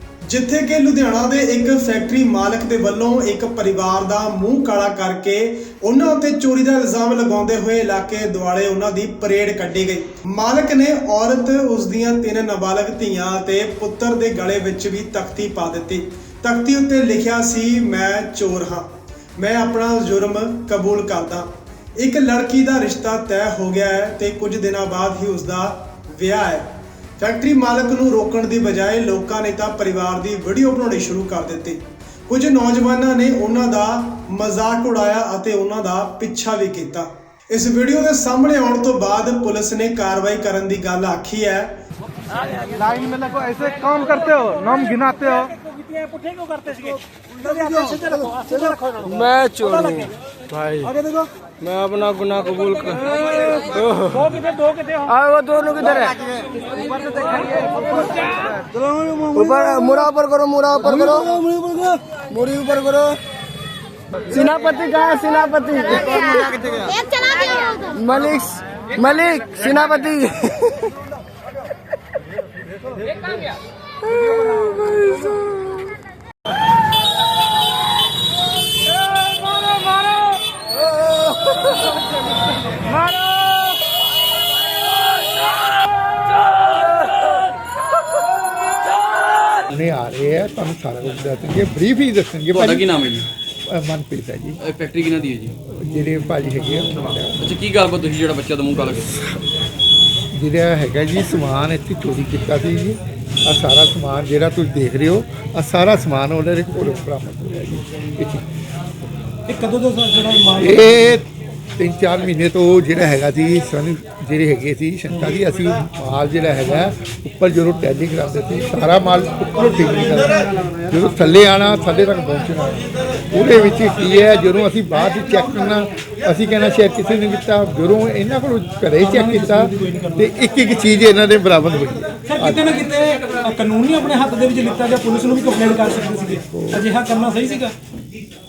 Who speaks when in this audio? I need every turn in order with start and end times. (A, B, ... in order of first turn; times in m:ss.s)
0:00.3-0:21.5 A
0:22.0-0:26.7 A
0:27.2-0:41.8 A
0:43.1-0:45.5 B
0:46.0-0:50.0 B
0:49.1-0:50.1 C
0:53.2-0:53.4 B
0:54.1-0:55.0 B
0:55.1-0:56.1 C
0:57.6-0:58.0 C
0:57.6-0:58.0 B
0:59.3-1:01.4 C
1:02.3-1:03.2 C
1:04.3-1:10.7 C
1:29.7-1:32.9 D
1:32.5-1:33.3 E
1:33.7-1:34.6 D
1:34.6-1:35.5 E
1:35.7-1:37.4 D
1:37.4-1:39.1 E
1:39.0-1:39.4 D
1:40.3-1:48.4 D
1:49.5-1:51.1 B
1:50.6-2:12.7 D
2:09.0-2:10.3 B
2:12.3-2:17.7 B
2:16.3-2:16.8 D